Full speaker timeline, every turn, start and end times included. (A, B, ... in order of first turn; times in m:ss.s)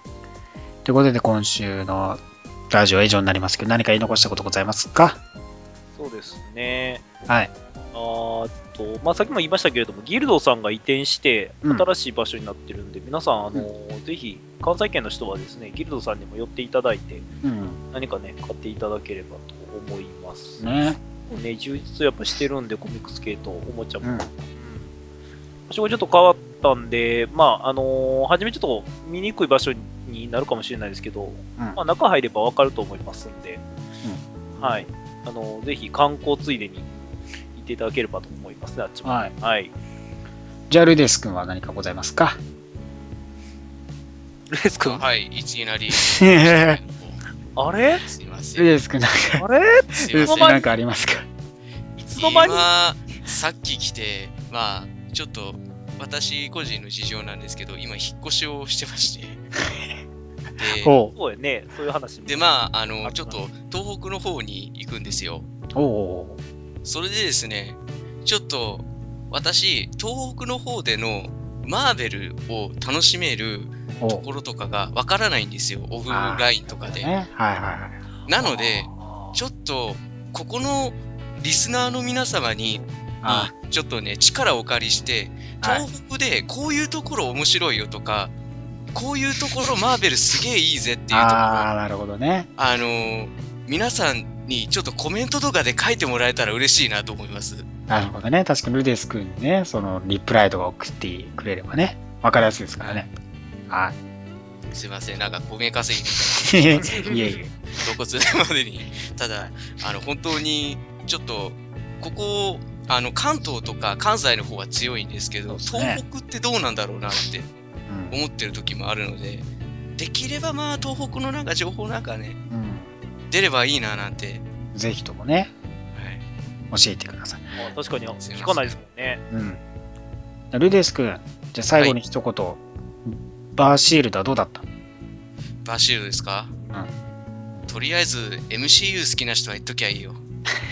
0:00.8-0:05.2 A
0:06.0-0:07.0 B
0:07.9-0:17.3 B
0:17.4-0:17.8 A
0:17.9-0:20.6 B
0:20.6-0:21.0 A
0:21.3-0:24.9 B
0:24.0-0:24.3 A
0:25.7-0:33.6 B
0:34.6-0:36.9 B
0:37.5-0:39.7 B
0:39.0-0:39.3 A
0:40.7-0:42.4 A
0:44.5-0:45.0 B
0:44.8-0:47.2 C
0:46.0-0:46.8 A
0:47.6-0:48.0 B
0:48.0-0:48.6 C
0:48.6-0:49.4 A
0:49.4-0:50.7 B
0:50.0-0:50.6 C
0:50.1-0:51.3 A
0:52.0-0:52.7 B
0:52.2-0:59.4 C
1:00.6-1:01.0 C
1:00.8-1:01.1 A
1:01.1-1:02.4 B
1:02.3-1:05.5 C
1:03.0-1:03.4 B
1:05.7-1:06.4 A
1:06.8-1:17.1 C
1:16.1-1:18.0 A
1:18.3-1:19.4 B
1:18.3-1:28.3 C
1:23.2-1:23.5 A
1:28.9-1:31.7 C
1:31.1-1:32.5 A
1:32.6-1:37.7 C
1:37.9-1:43.1 A
1:43.7-1:44.0 A
1:44.7-1:57.5 C
1:46.4-1:47.6 A
1:46.8-1:47.2 B
1:55.5-1:56.0 A
1:57.9-1:58.2 A
1:58.1-2:02.4 C
2:02.5-2:02.9 A
2:03.3-2:04.4 C
2:04.7-2:05.5 A
2:05.9-2:06.2 C
2:06.7-2:07.5 A
2:07.6-2:09.6 B
2:08.2-2:08.8 C
2:09.3-2:09.6 A
2:10.5-2:14.7 A
2:15.6-2:16.5 C
2:17.7-2:20.2 C